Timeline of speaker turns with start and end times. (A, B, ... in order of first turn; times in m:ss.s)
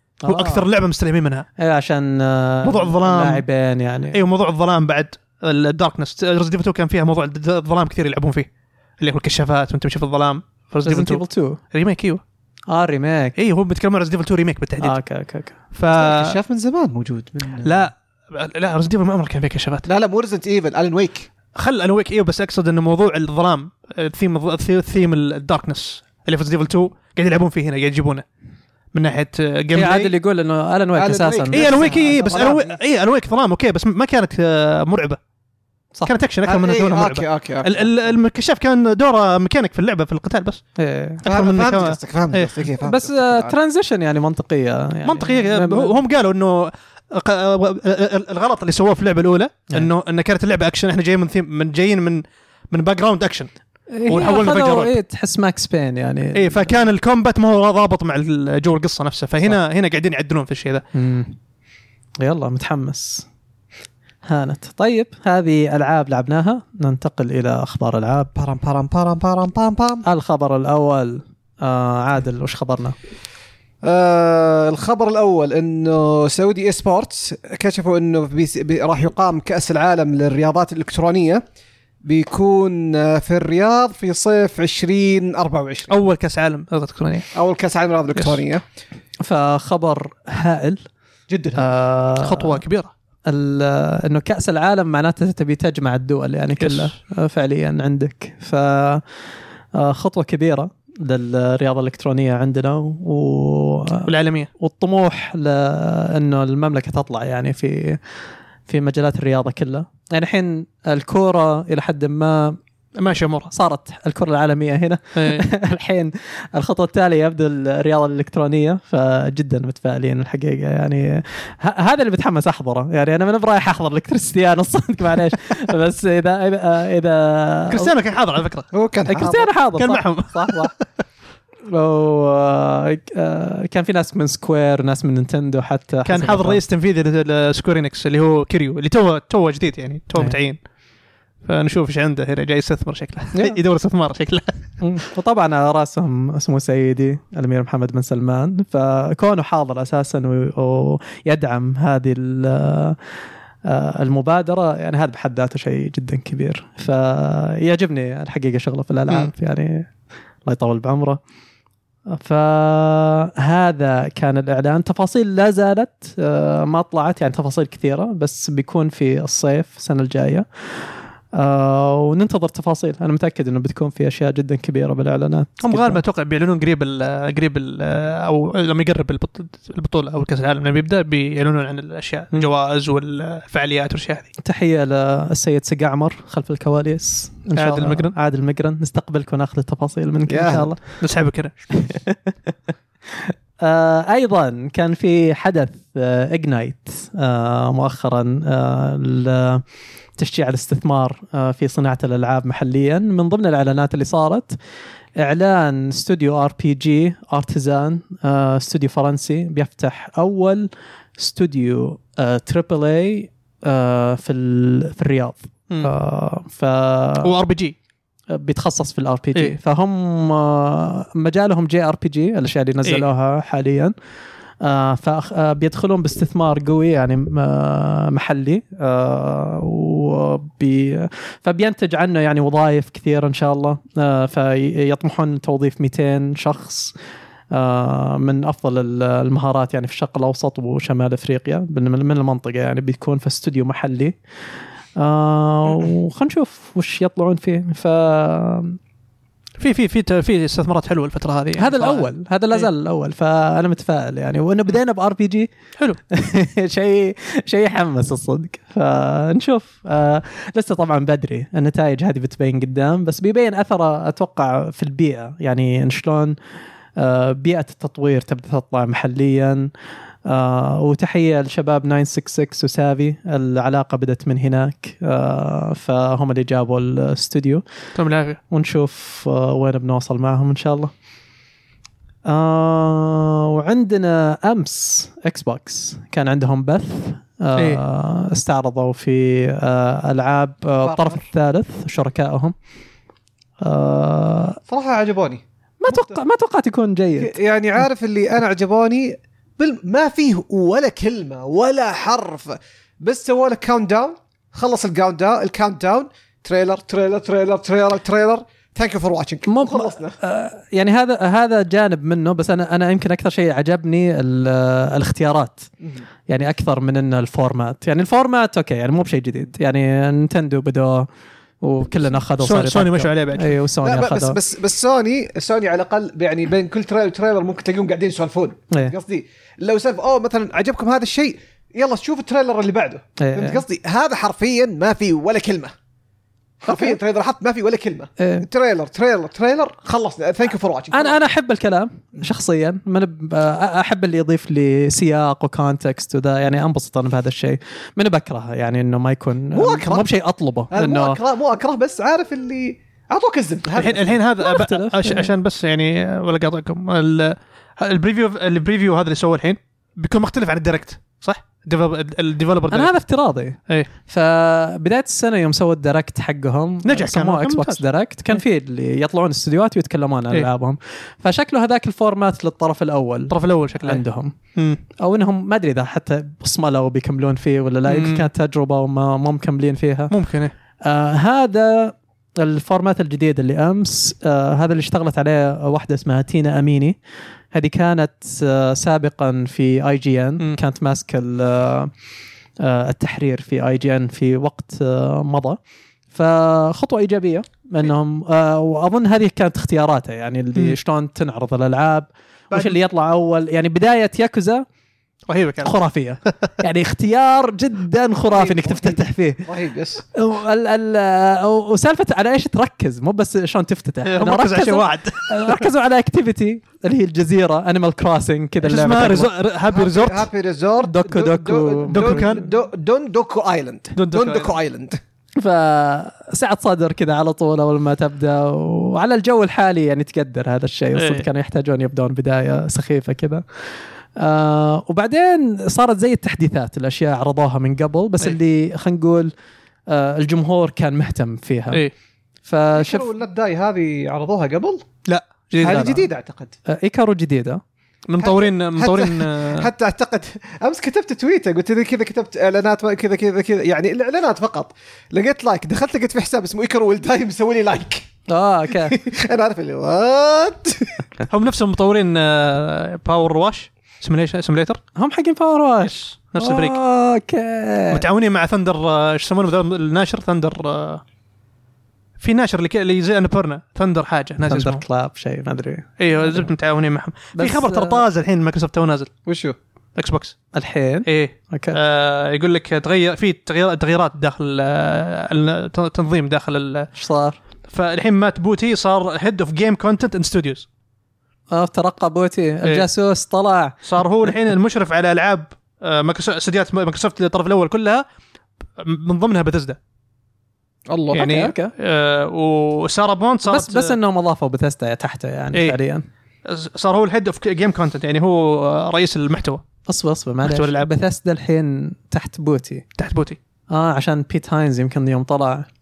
0:00.2-0:00.6 A
0:00.2-0:01.5 B
0:01.6-0:04.2 A
0:02.6-0:03.4 B
0:04.1-0:08.5 B
0:09.0-0:12.2 B
0:10.8-0:11.6 A
0:12.7-0:13.4 A
0:13.4-0:15.0 B
0:14.8-0:15.6 A
0:15.7-0:16.4 B
0:15.9-0:17.9 C
0:17.6-0:19.9 B
0:19.9-0:21.3 C
0:21.5-0:28.2 B
0:28.9-0:30.1 B
0:29.7-0:32.2 A
0:31.0-0:32.8 C
0:31.5-0:35.2 B
0:36.0-0:40.6 B
0:36.4-0:37.9 C
0:40.8-0:41.2 A
0:41.2-0:42.6 B
0:41.2-0:43.6 C
0:42.8-0:46.0 A
0:45.0-0:53.5 B
0:53.9-0:56.7 A
0:54.1-0:55.0 B
0:56.4-1:00.8 B
1:00.9-1:01.4 A
1:02.2-1:03.3 A
1:04.2-1:08.3 A
1:08.4-1:10.0 C
1:10.0-1:13.0 A
1:13.8-1:21.4 C
1:22.0-1:25.9 C
1:25.9-1:27.3 B
1:27.3-1:28.6 C
1:28.2-1:28.4 B
1:29.2-1:30.9 A
1:31.3-1:31.7 C
1:31.6-1:32.6 A
1:32.2-1:32.9 B
1:33.3-1:39.0 A
1:36.6-1:36.9 B
1:39.7-1:48.0 A
1:44.0-1:44.5 B
1:48.7-1:52.6 A
1:53.0-1:53.5 B
1:53.5-2:07.9 A
1:55.2-1:55.4 B
2:07.7-2:08.7 B
2:08.7-2:09.5 C
2:09.1-2:10.7 A
2:09.8-2:10.8 B
2:11.7-2:16.6 A
2:16.0-2:20.6 B
2:21.4-2:24.5 B
2:24.8-2:33.0 A
2:33.6-2:39.9 A
2:40.4-2:41.2 A
2:42.1-2:56.0 A
2:55.6-3:04.3 B
3:04.4-3:11.0 A
3:07.6-3:08.1 B
3:10.3-3:10.7 C
3:11.0-3:11.6 B
3:11.8-3:12.3 A
3:13.2-3:19.6 A
3:20.2-3:24.6 A
3:25.2-3:37.3 A
3:37.2-3:37.8 B
3:38.3-3:43.9 A
3:44.6-3:56.9 A
3:57.5-4:04.2 A
4:05.0-4:08.8 A
4:09.6-4:12.7 B
4:11.6-4:15.5 A
4:16.1-4:26.4 A
4:27.0-4:29.7 A
4:30.3-4:37.6 A
4:38.0-4:38.4 B
4:38.5-4:40.9 A
4:42.2-4:52.6 A
4:50.8-4:51.2 C
4:53.6-4:54.6 A
4:54.7-4:56.1 C
4:55.8-4:57.4 A
4:57.2-5:10.2 C
5:09.5-5:15.7 A
5:16.3-5:21.1 A
5:21.6-5:24.4 A
5:22.4-5:23.6 B
5:23.8-5:35.7 C
5:33.2-5:33.6 A
5:36.6-5:41.2 C
5:36.7-5:36.9 A
5:38.2-5:38.5 A
5:40.9-5:51.2 A
5:49.5-5:50.1 C
5:50.7-5:54.2 C
5:53.8-6:02.9 B
5:54.4-5:55.3 A
6:02.7-6:14.4 A
6:06.8-6:07.8 B
6:13.3-6:14.0 B
6:14.6-6:14.8 B
6:15.0-6:20.1 A
6:17.9-6:18.3 B
6:20.1-6:20.5 B
6:20.8-6:27.0 A
6:27.5-6:31.9 A
6:32.6-6:35.6 A
6:36.1-6:44.7 A
6:45.3-6:45.7 B
6:45.6-6:49.5 A
6:48.3-6:50.0 C
6:50.1-6:59.3 A
6:54.0-6:55.6 B
6:58.6-7:00.3 B
6:59.7-7:05.0 C
7:00.8-7:02.4 A
7:01.9-7:02.4 B
7:04.0-7:04.5 B
7:05.4-7:19.3 A
7:11.0-7:11.3 B
7:19.9-7:21.8 A
7:22.4-7:23.1 A
7:22.8-7:24.8 C
7:25.1-7:26.0 B
7:25.6-7:26.6 C
7:25.6-7:26.0 A
7:26.7-7:27.6 A
7:28.1-7:29.7 B
7:28.2-7:38.1 C
7:38.3-7:39.0 A
7:38.8-7:41.0 C
7:41.3-7:44.8 B
7:45.0-7:48.0 A
7:45.8-7:46.8 B
7:47.9-7:51.0 B
7:52.2-7:54.8 B
7:54.4-7:56.5 A
7:56.0-7:59.1 B
7:57.4-7:58.0 A
7:59.3-7:59.6 C
8:00.0-8:00.4 B
8:00.5-8:01.8 A
8:01.1-8:06.9 B
8:06.9-8:07.4 A
8:07.7-8:10.7 B
8:11.5-8:13.8 A
8:13.8-8:18.1 B
8:18.8-8:19.8 B
8:20.9-8:21.4 C
8:21.1-8:21.7 A
8:21.1-8:24.0 B
8:23.5-8:26.0 A
8:26.4-8:29.6 B
8:29.9-8:32.9 A
8:30.4-8:30.9 B
8:33.0-8:33.4 B
8:33.7-8:35.7 A